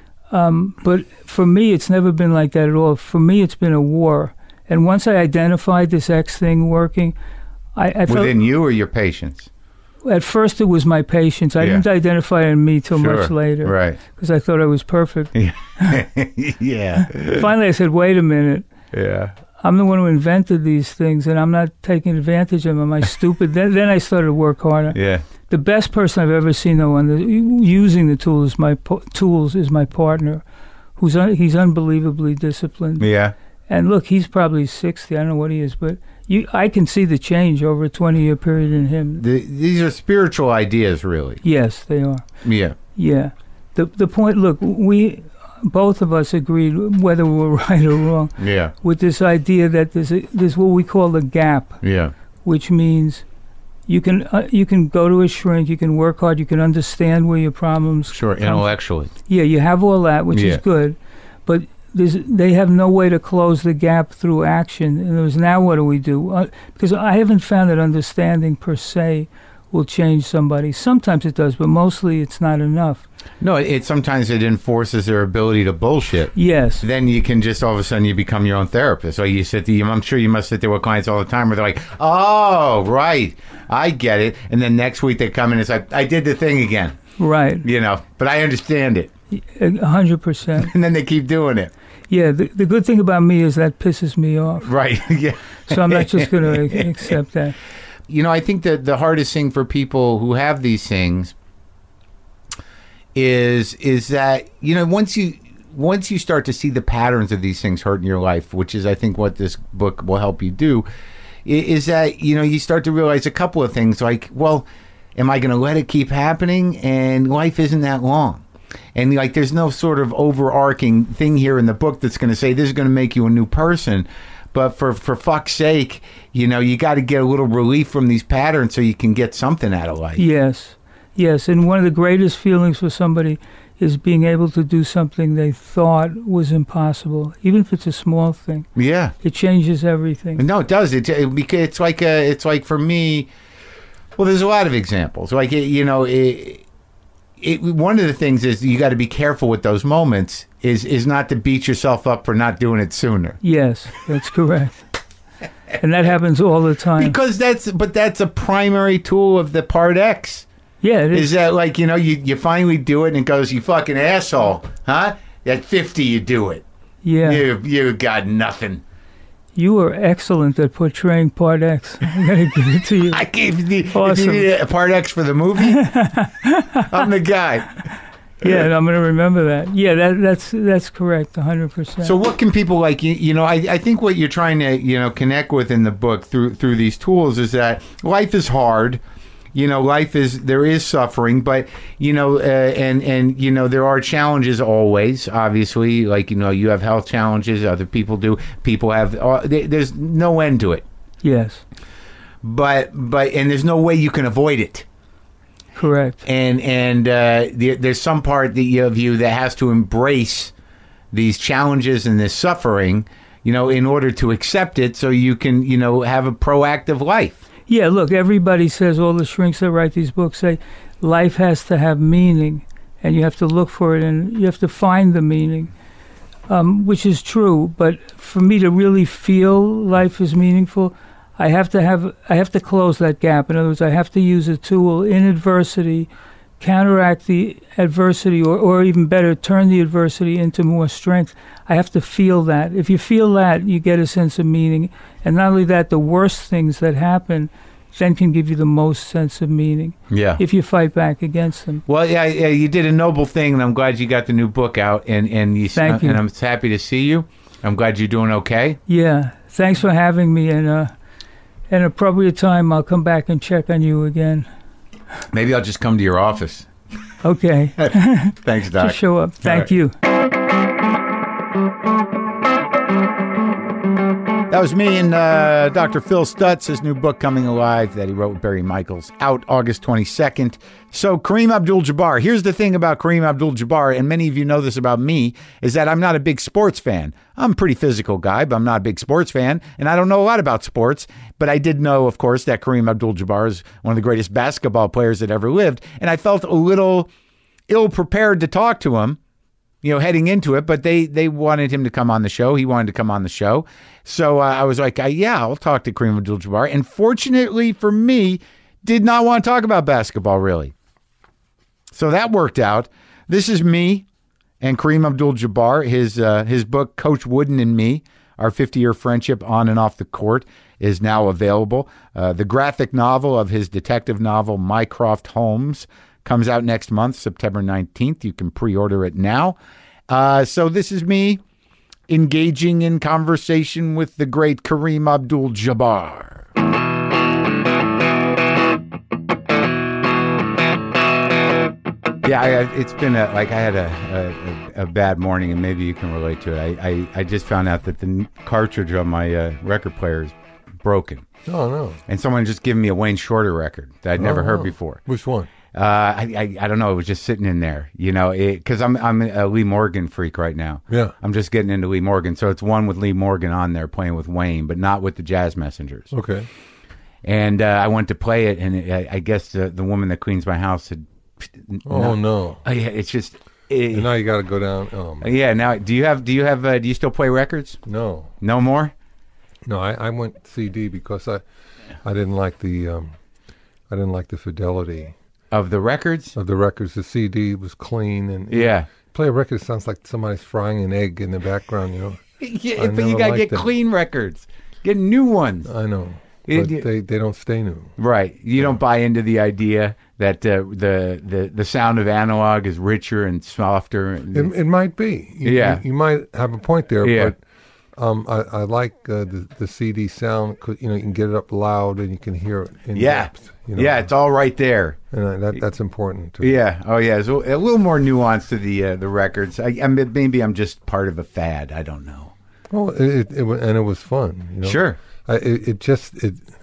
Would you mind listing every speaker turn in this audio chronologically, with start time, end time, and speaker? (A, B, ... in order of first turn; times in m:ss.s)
0:00.3-0:07.1 A
0:07.8-0:08.3 A
0:08.1-0:09.5 B
0:10.0-0:16.0 A
0:13.0-0:14.0 B
0:15.3-0:17.5 B
0:17.0-0:18.6 A
0:18.9-0:19.3 B
0:19.6-0:30.4 A
0:24.9-0:25.2 B
0:31.0-0:33.0 A
0:33.0-0:33.3 B
0:33.7-0:39.2 A
0:39.2-0:41.4 B
0:41.4-0:42.2 A
0:42.4-0:42.8 B
0:42.9-0:51.8 A
0:48.4-0:48.7 B
0:51.8-0:52.1 B
0:52.4-0:53.2 A
0:53.9-0:58.6 A
0:58.1-0:59.1 B
0:59.2-1:13.0 A
1:00.3-1:00.6 B
1:13.4-1:27.0 B
1:16.3-1:16.8 A
1:27.2-1:27.6 A
1:27.6-1:29.1 B
1:29.3-1:30.7 A
1:30.6-1:31.7 B
1:32.1-1:34.7 A
1:34.6-1:36.9 B
1:35.7-1:37.6 A
1:38.1-1:41.3 B
1:43.1-1:50.8 B
1:51.4-1:58.4 B
1:58.9-2:10.2 B
2:10.2-2:18.7 A
2:18.7-2:19.1 B
2:19.2-2:20.4 A
2:20.4-2:23.3 B
2:24.2-2:26.6 B
2:27.4-2:33.4 B
2:33.4-2:34.8 A
2:35.8-2:37.2 A
2:37.0-2:40.5 B
2:40.8-2:41.3 A
2:41.1-2:46.6 B
2:47.0-2:47.4 A
2:47.2-2:48.8 B
2:49.5-2:53.2 A
2:53.1-2:55.9 B
2:53.9-2:54.5 A
2:55.6-2:57.0 A
2:56.8-2:57.8 B
2:58.4-3:02.1 A
3:02.0-3:09.0 B
3:09.5-3:20.8 B
3:21.2-3:21.6 A
3:22.4-3:24.8 B
3:25.7-3:26.2 A
3:26.2-3:30.5 B
3:31.1-3:37.4 B
3:37.7-3:45.7 A
3:46.5-3:56.1 A
3:56.6-4:11.8 A
4:10.1-4:10.4 B
4:11.9-4:18.8 B
4:15.7-4:16.2 A
4:18.9-4:20.9 A
4:21.7-4:24.5 A
4:25.3-4:26.7 B
4:27.2-4:29.9 A
4:28.4-4:29.7 B
4:34.5-4:57.1 B
4:57.7-4:59.2 B
4:59.8-5:10.7 B
5:11.9-5:14.0 B
5:14.6-5:29.6 B
5:30.1-5:31.4 B
5:32.1-5:36.4 B
5:42.2-5:51.3 B
5:51.4-5:52.0 C
5:52.1-5:55.0 B
5:54.2-5:55.5 C
5:55.7-6:06.1 B
6:06.1-6:06.5 C
6:07.2-6:14.1 B
6:11.8-6:12.6 C
6:13.9-6:15.3 C
6:15.2-6:17.8 B
6:17.8-6:18.3 C
6:18.4-6:18.9 B
6:19.6-6:21.4 C
6:22.0-6:23.1 C
6:23.9-6:25.1 C
6:25.5-6:26.3 B
6:26.3-6:32.2 C
6:28.5-6:28.9 B
6:32.4-6:35.7 B
6:32.8-6:33.7 C
6:35.7-6:37.9 C
6:36.5-6:36.8 B
6:38.0-6:44.5 B
6:44.3-6:47.4 C
6:45.4-6:45.8 B
6:47.0-6:47.3 B
6:48.0-6:54.1 C
6:52.9-6:55.0 B
6:55.1-6:56.5 C
6:56.4-7:02.3 B
7:02.7-7:06.4 C
7:04.6-7:05.0 B